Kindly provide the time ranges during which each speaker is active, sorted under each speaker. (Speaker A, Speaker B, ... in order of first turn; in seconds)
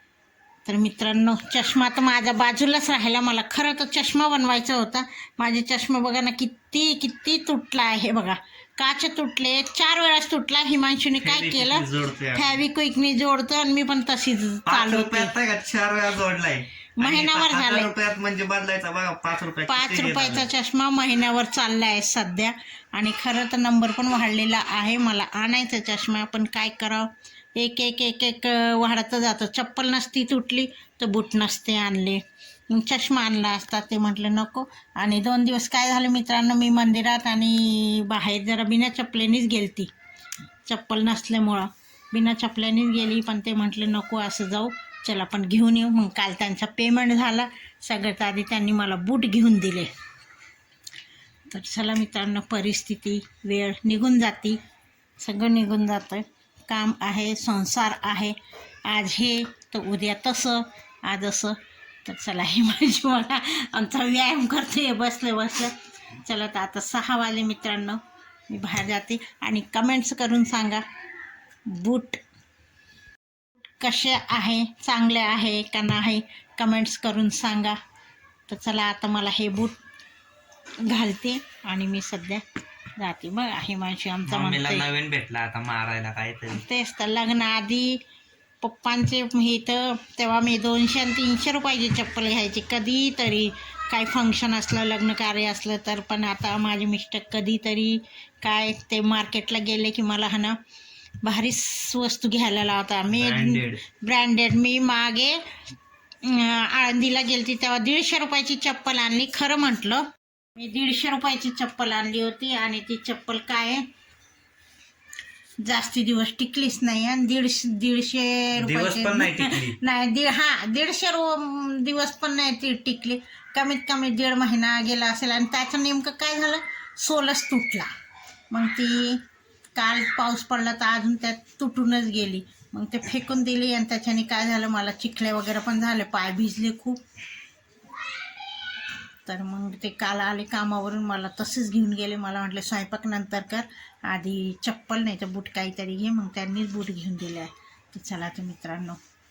Speaker A: 0.7-15.3, 17.0-17.9, 19.7-39.9, 40.7-49.9, 51.5-54.6, 55.2-70.8, 71.7-72.2, 73.8-77.8, 78.5-79.8, 80.8-82.4, 83.0-84.9, 86.5-88.0, 88.6-100.6, 101.2-105.4, 106.2-113.8, 115.6-127.9, 128.5-129.2, 129.8-137.0, 139.3-149.0
Speaker B: 11.2-12.6, 14.7-20.5, 84.3-86.6, 103.1-103.8, 118.6-119.8